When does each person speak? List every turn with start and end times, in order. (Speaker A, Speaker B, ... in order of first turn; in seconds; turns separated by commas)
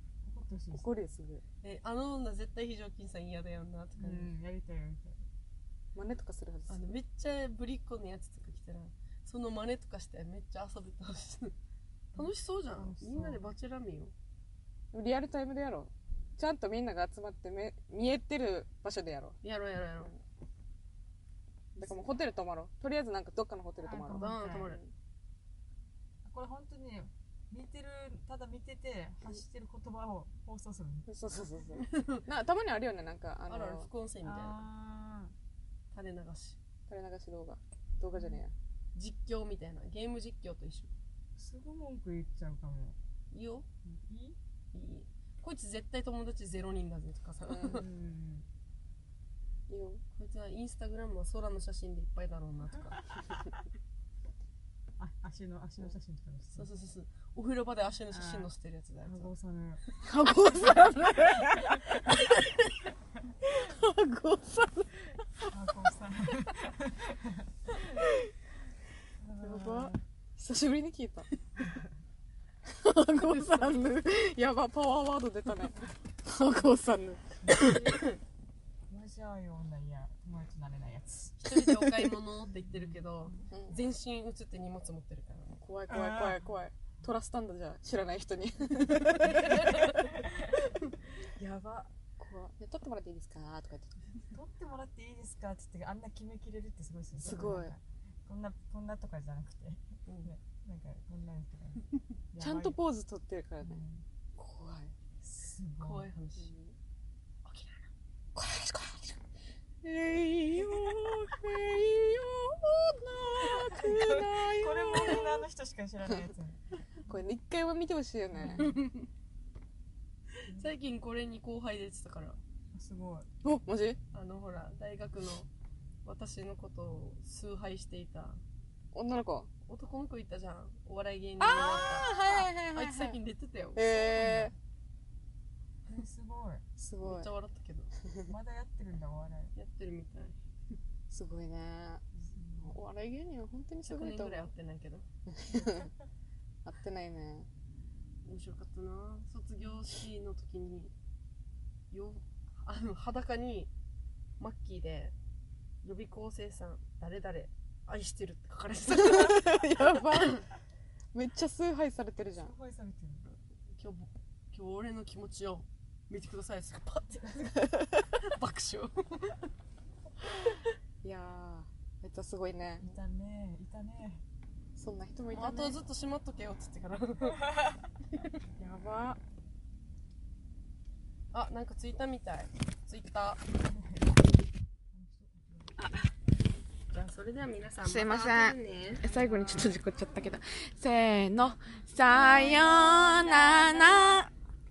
Speaker A: 0.2-0.9, Speaker B: 0.7-1.4, Speaker C: 1.6-4.3, Speaker A: 4.0-5.2, Speaker B: 6.0-7.0, Speaker C: 6.7-11.6, Speaker A: 12.1-13.5, Speaker C: 12.1-14.1, Speaker B: 14.9-19.4, Speaker C: 19.4-20.1, Speaker B: 21.8-24.9, Speaker A: 23.8-24.7, Speaker C: 24.2-24.8, Speaker A: 26.2-31.1, Speaker B: 31.1-33.9, Speaker C: 31.8-32.2, Speaker C: 33.5-34.6, Speaker A: 34.2-35.3, Speaker C: 35.9-36.6, Speaker B: 36.9-38.5, Speaker A: 38.1-38.4, Speaker C: 39.0-40.9, Speaker A: 41.4-43.0, Speaker C: 43.3-43.6, Speaker A: 43.8-44.4, Speaker C: 44.7-47.9, Speaker B: 47.5-47.8, Speaker A: 47.6-48.5, Speaker B: 49.7-50.0, Speaker C: 50.1-53.0, Speaker A: 55.0-56.7, Speaker C: 56.6-59.3, Speaker A: 58.1-58.5, Speaker A: 59.0-59.8, Speaker B: 60.0-62.4, Speaker A: 61.4-62.0, Speaker B: 63.4-65.5, Speaker A: 65.5-67.8, Speaker A: 69.2-70.0, Speaker B: 69.4-71.3, Speaker B: 72.7-77.8, Speaker C: 73.1-73.9, Speaker A: 77.4-78.1, Speaker C: 77.5-78.2, Speaker A: 78.9-81.7, Speaker C: 81.4-85.6, Speaker A: 82.5-83.5, Speaker B: 83.5-83.8, Speaker B: 85.6-90.1, Speaker A: 85.9-86.5, Speaker C: 89.1-90.1, Speaker A: 89.2-91.3, Speaker B: 91.3-94.1, Speaker A: 94.3-102.8, Speaker B: 97.2-97.7, Speaker C: 97.3-97.6, Speaker C: 100.1-100.3, Speaker B: 102.4-103.8, Speaker A: 103.6-104.0, Speaker B: 104.4-104.9, Speaker A: 105.2-106.1, Speaker C: 105.8-106.5, Speaker B: 106.4-106.8, Speaker C: 107.5-107.9, Speaker B: 108.3-109.2, Speaker B: 109.8-115.5, Speaker A: 110.6-111.0, Speaker A: 113.4-116.6, Speaker B: 117.1-118.7, Speaker A: 118.3-118.7, Speaker C: 118.5-119.1, Speaker C: 120.5-122.4, Speaker A: 122.7-123.3, Speaker B: 123.4-124.0, Speaker C: 124.1-125.5, Speaker C: 126.0-128.4, Speaker B: 128.9-129.5, Speaker C: 129.7-134.0, Speaker B: 131.4-133.2, Speaker B: 133.8-134.5, Speaker A: 134.1-134.6, Speaker A: 135.9-136.6, Speaker B: 136.8-137.3, Speaker C: 137.0-137.9, Speaker A: 138.3-139.5, Speaker C: 139.6-140.4, Speaker B: 141.1-142.0, Speaker A: 142.2-142.8, Speaker B: 142.6-144.5, Speaker C: 143.9-145.1, Speaker B: 145.3-145.9, Speaker B: 146.6-147.5, Speaker C: 148.2-150.9, Speaker C: 151.9-153.7, Speaker C: 154.4-155.1, Speaker C: 155.8-160.4, Speaker B: 158.9-160.4, Speaker B: 161.1-162.5, Speaker A: 162.3-163.4, Speaker C: 163.7-167.5, Speaker B: 167.7-168.1, Speaker C: 168.2-169.5, Speaker B: 171.0-172.9, Speaker A: 172.8-174.2, Speaker B: 174.8-175.8, Speaker C: 175.3-177.5, Speaker A: 177.4-177.8, Speaker C: 178.1-178.4, Speaker B: 178.6-179.2, Speaker C: 181.3-183.4, Speaker A: 183.6-184.2, Speaker A: 184.9-186.0, Speaker B: 185.8-186.1, Speaker C: 186.9-189.1, Speaker B: 187.8-194.3, Speaker A: 189.0-189.8, Speaker C: 192.0-194.2